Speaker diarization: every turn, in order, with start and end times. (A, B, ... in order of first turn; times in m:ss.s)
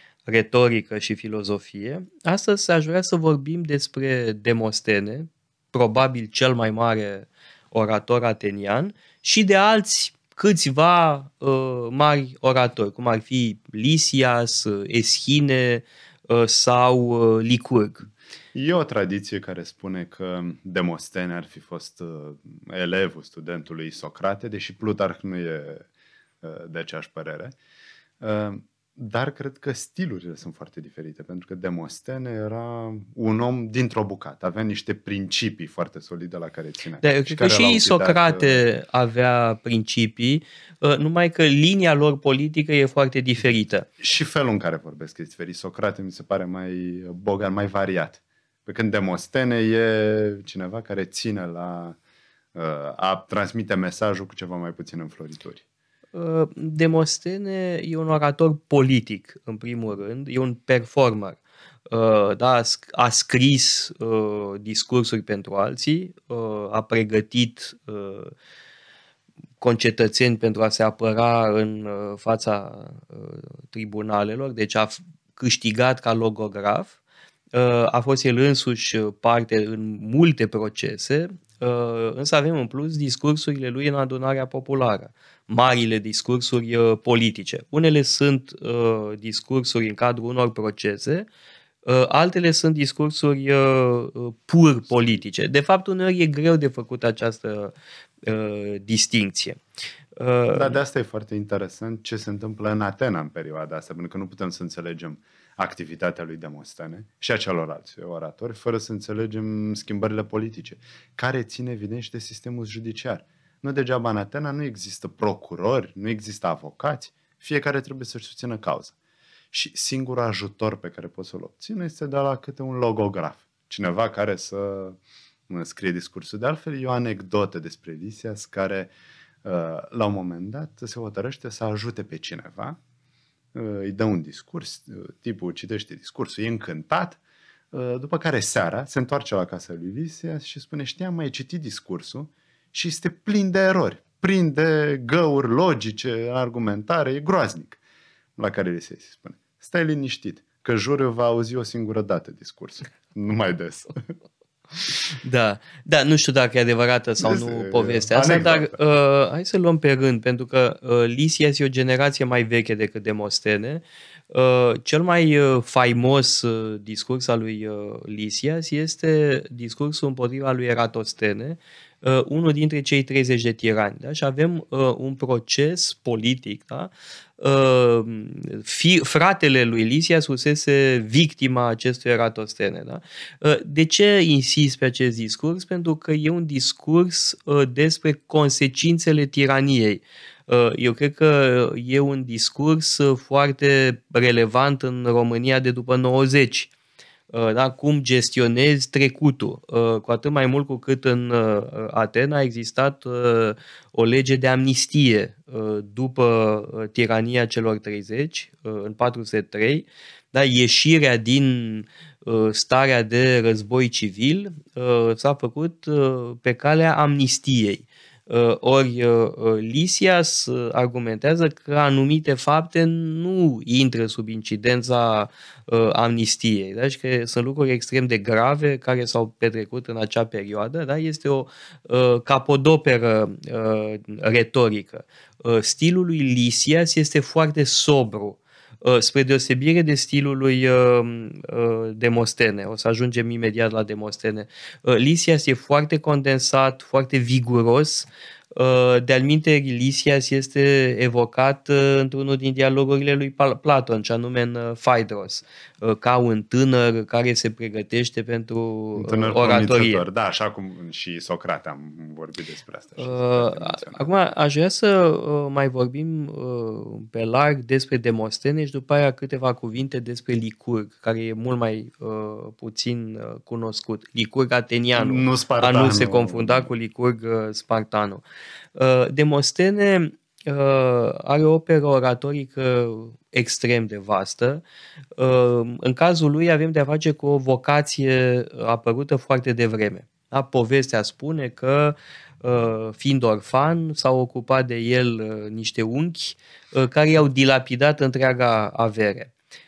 0:00.2-0:18.1 A
0:18.5-0:25.8 B
0:26.4-0:27.6 B
0:28.2-0:38.6 B
0:37.0-0:43.9 A
0:44.0-0:52.0 B
0:52.5-0:55.6 B
0:56.1-1:01.4 A
1:01.9-1:08.3 A
1:09.6-1:16.9 A
1:17.5-1:31.3 A
1:31.8-1:39.6 A
1:34.9-1:35.2 B
1:40.2-1:40.8 A
1:40.5-1:58.9 B
1:59.5-2:05.0 B
2:05.5-2:08.9 B
2:09.4-2:12.8 B
2:13.5-2:17.2 B
2:17.7-2:27.8 B
2:28.4-2:34.0 B
2:35.2-3:16.7 A
2:37.2-2:38.7 B
3:17.3-4:20.0 A
4:19.0-4:24.0 B
4:23.0-4:38.2 A
4:35.0-4:36.7 B
4:38.8-4:44.6 A
4:45.2-4:59.3 A